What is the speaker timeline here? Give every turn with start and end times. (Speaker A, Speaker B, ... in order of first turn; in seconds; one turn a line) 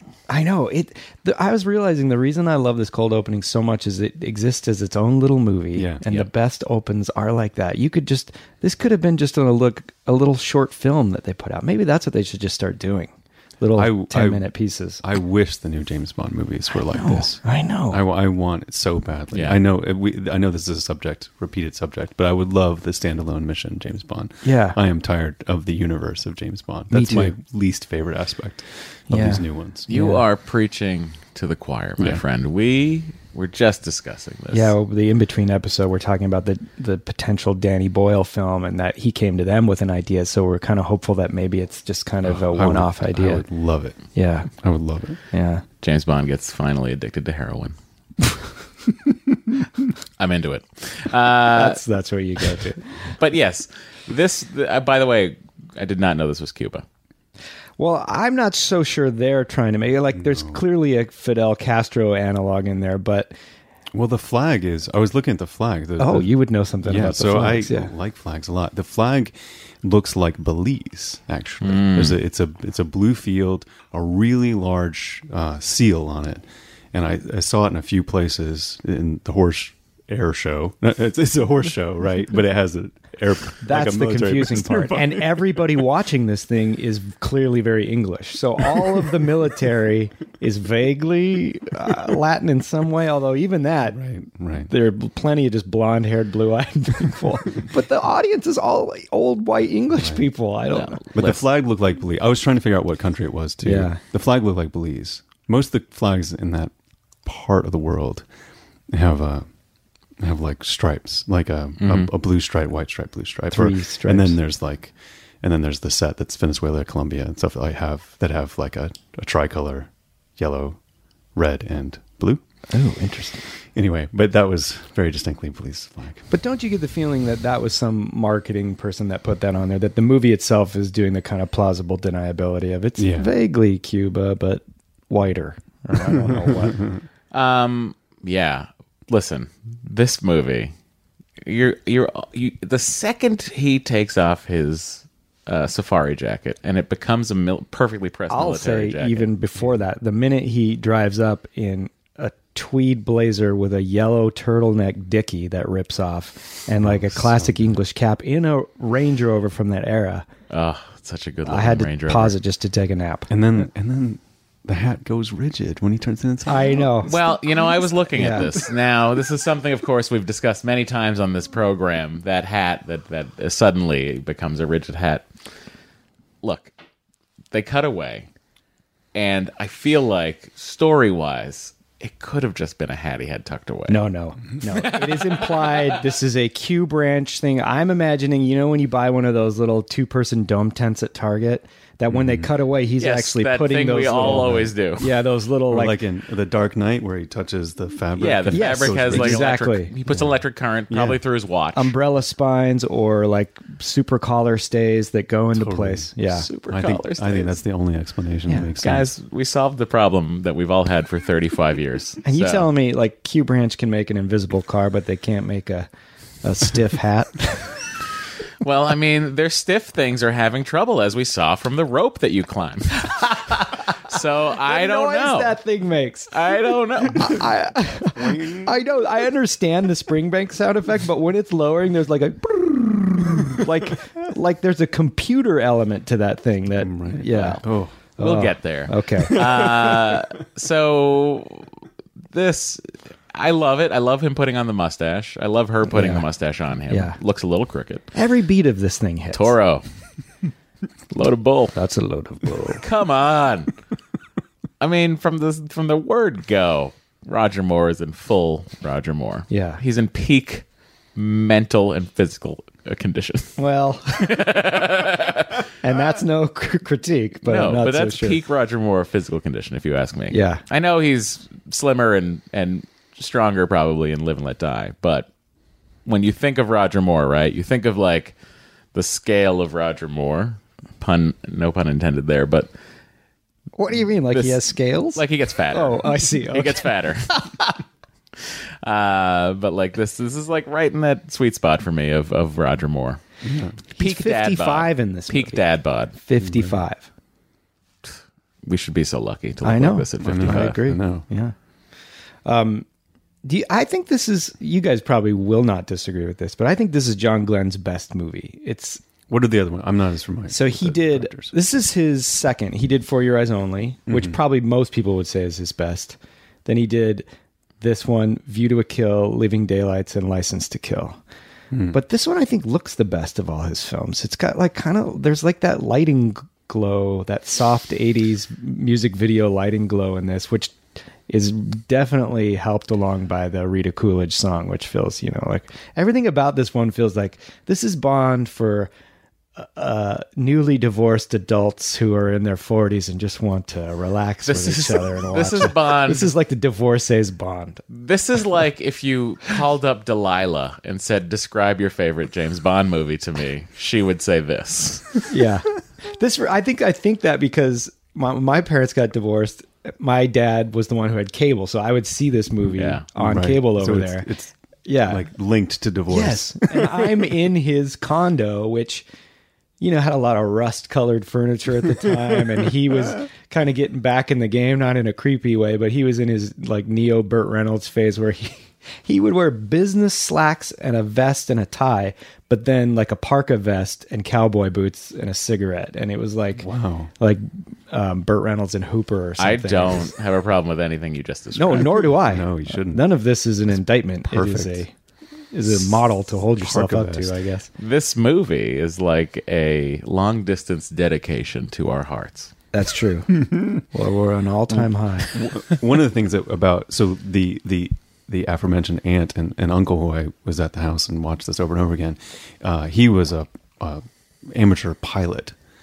Speaker A: 0.3-15.0
Speaker B: 5.8-6.0
Speaker B: 13.8-29.9
Speaker A: 16.9-18.0
Speaker C: 19.3-19.6
Speaker A: 24.4-24.8
Speaker A: 26.9-27.4
Speaker A: 29.1-30.2
Speaker C: 29.9-34.7
Speaker A: 34.5-43.4
Speaker B: 42.2-45.2
Speaker A: 44.1-44.5
Speaker A: 45.3-45.6
Speaker C: 45.8-47.8
Speaker C: 50.2-51.8
Speaker A: 51.5-52.9
Speaker C: 53.2-56.9
Speaker A: 57.8-63.4
Speaker B: 60.1-60.6
Speaker B: 63.9-85.8
Speaker A: 66.0-67.9
Speaker C: 71.6-72.2
Speaker A: 83.6-94.0
Speaker B: 93.9-94.7
Speaker A: 94.7-101.0
Speaker B: 100.0-100.2
Speaker C: 100.7-101.4
Speaker B: 101.2-106.7
Speaker A: 103.6-104.0
Speaker B: 107.2-108.2
Speaker B: 108.9-109.5
Speaker B: 110.2-120.8
Speaker C: 111.8-112.1
Speaker A: 113.5-114.4
Speaker B: 121.3-122.4
Speaker A: 122.7-123.4
Speaker B: 123.8-126.3
Speaker A: 126.3-136.8
Speaker B: 133.0-133.3
Speaker B: 136.3-137.0
Speaker C: 137.3-140.7
Speaker C: 141.4-149.3
Speaker A: 148.3-160.3
Speaker B: 156.8-157.8
Speaker C: 160.5-162.4
Speaker A: 161.5-163.3
Speaker B: 163.3-168.6
Speaker A: 166.5-167.1
Speaker C: 167.1-175.3
Speaker A: 168.2-168.5
Speaker C: 176.4-176.7
Speaker C: 177.5-178.3
Speaker C: 179.2-184.0
Speaker A: 183.9-196.0
Speaker C: 184.7-186.0
Speaker B: 192.1-192.5
Speaker C: 193.0-195.1
Speaker B: 194.3-194.6
Speaker B: 195.7-199.5
Speaker C: 198.2-201.9
Speaker A: 198.5-199.9
Speaker B: 200.1-201.2
Speaker A: 201.8-206.5
Speaker B: 205.5-206.1
Speaker C: 206.2-207.6
Speaker B: 206.7-209.1
Speaker C: 208.8-212.7
Speaker A: 212.2-215.9
Speaker A: 216.4-217.7
Speaker C: 218.6-225.6
Speaker A: 224.7-226.4
Speaker C: 226.3-227.4
Speaker A: 227.1-237.6
Speaker B: 228.1-228.8
Speaker B: 236.8-238.0
Speaker A: 238.2-239.4
Speaker C: 238.2-241.7
Speaker B: 239.4-240.2
Speaker C: 242.3-248.1
Speaker A: 245.9-246.2
Speaker A: 246.9-247.2
Speaker A: 248.1-249.5
Speaker C: 249.3-249.8
Speaker C: 251.1-251.7
Speaker A: 251.8-252.8
Speaker C: 252.8-253.7
Speaker C: 254.8-260.6
Speaker A: 259.5-259.8
Speaker C: 261.2-263.6
Speaker A: 263.6-264.4
Speaker C: 264.2-265.6
Speaker A: 265.8-268.4
Speaker C: 267.4-275.3
Speaker A: 270.3-270.6
Speaker C: 276.1-278.4
Speaker C: 278.9-282.7
Speaker A: 283.8-286.9
Speaker C: 284.3-287.4
Speaker C: 288.4-293.2
Speaker B: 293.4-293.8
Speaker A: 293.9-295.6
Speaker C: 294.0-296.1
Speaker A: 296.2-297.1
Speaker B: 296.4-296.8
Speaker C: 298.6-300.8
Speaker A: 299.6-301.5
Speaker B: 300.2-301.3
Speaker A: 302.4-302.9
Speaker A: 303.4-309.0
Speaker B: 309.3-311.5
Speaker A: 310.5-317.3
Speaker B: 314.1-314.4
Speaker A: 317.8-321.2
Speaker B: 321.7-322.0
Speaker A: 321.9-338.9
Speaker A: 339.6-347.8
Speaker C: 344.5-346.3
Speaker C: 347.9-355.2
Speaker A: 355.3-364.3
Speaker C: 362.8-363.0
Speaker B: 363.2-364.5
Speaker A: 364.9-365.3
Speaker B: 365.0-367.3
Speaker A: 366.1-369.1
Speaker A: 369.8-386.7
Speaker B: 386.6-387.1
Speaker A: 387.2-390.1
Speaker C: 389.4-392.1
Speaker A: 391.6-394.9
Speaker B: 392.0-394.9
Speaker A: 395.5-397.7
Speaker B: 395.7-397.3
Speaker C: 397.8-402.5
Speaker A: 402.7-405.4
Speaker B: 405.3-415.6